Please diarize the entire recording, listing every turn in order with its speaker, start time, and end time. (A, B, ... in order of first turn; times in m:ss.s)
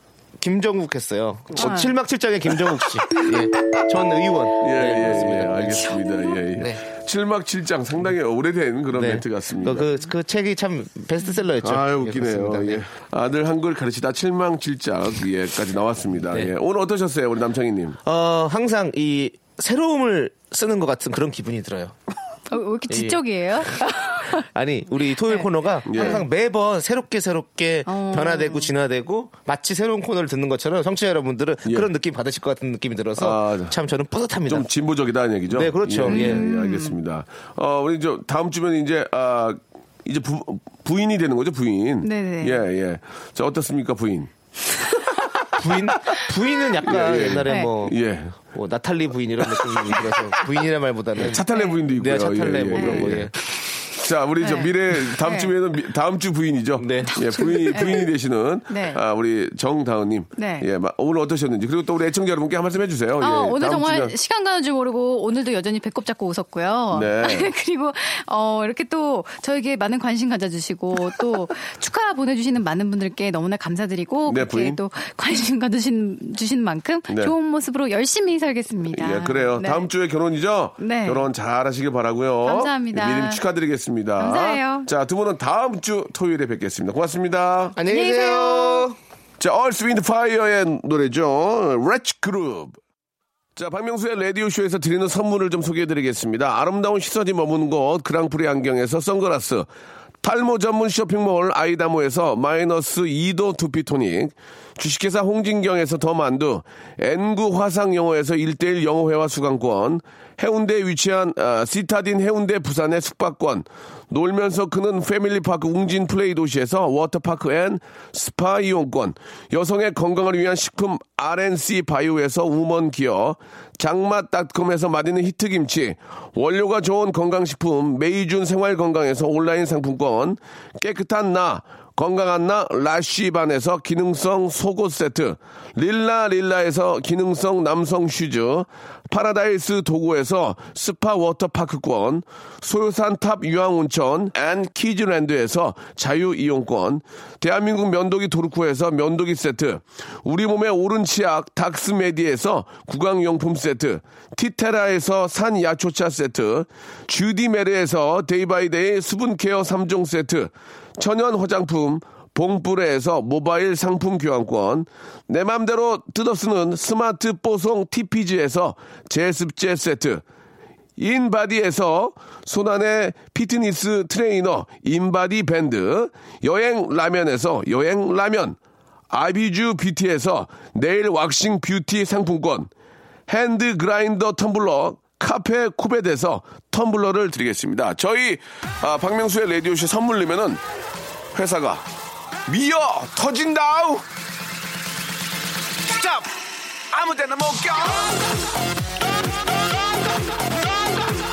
0:00.4-0:06.0 A
0:01.6-0:01.9 B
0:04.6-0:09.9 C
0:06.0-0:06.4 B
0:06.5-0:06.8 A
0:08.9-0:12.8 A
0:11.6-0:18.0 C
0:18.0-0:21.9 A
0:22.5-0:24.4 B
0:22.9-0:23.2 A
0:24.3-0:34.7 A
0:25.3-0:26.2 B
0:25.8-0:26.2 C
0:27.9-0:28.7 B
0:31.6-0:31.9 C
0:33.2-0:33.7 C
0:34.4-0:44.3 C
0:35.5-0:36.4 A
0:36.0-0:37.0 B
0:42.0-0:42.6 B
0:45.5-0:53.3 A
0:46.8-0:48.4 C
0:47.4-0:47.7 B
0:49.6-0:50.0 C
0:51.2-1:04.1 C
0:51.5-0:51.8 B
0:52.8-0:53.1 B
0:54.4-0:55.5 B
0:56.8-0:57.6 A
0:57.1-0:58.1 B
0:58.7-0:59.0 B
1:00.4-1:00.7 B
1:03.2-1:19.9 B
1:06.9-1:07.5 C
1:14.2-1:14.8 C
1:17.1-1:17.3 C
1:18.9-1:27.8 C
1:20.8-1:21.3 B
1:22.4-1:23.4 B
1:24.2-1:24.9 B
1:27.8-1:29.0 A
1:27.8-1:28.9 B
1:29.4-1:32.8 C
1:33.6-1:39.7 C
1:40.2-2:50.2 C
2:51.0-2:58.6 C
2:59.1-3:02.7 C
3:03.3-3:10.6 C
3:11.3-3:11.9 C
3:12.4-3:14.0 C
3:16.9-3:18.1 C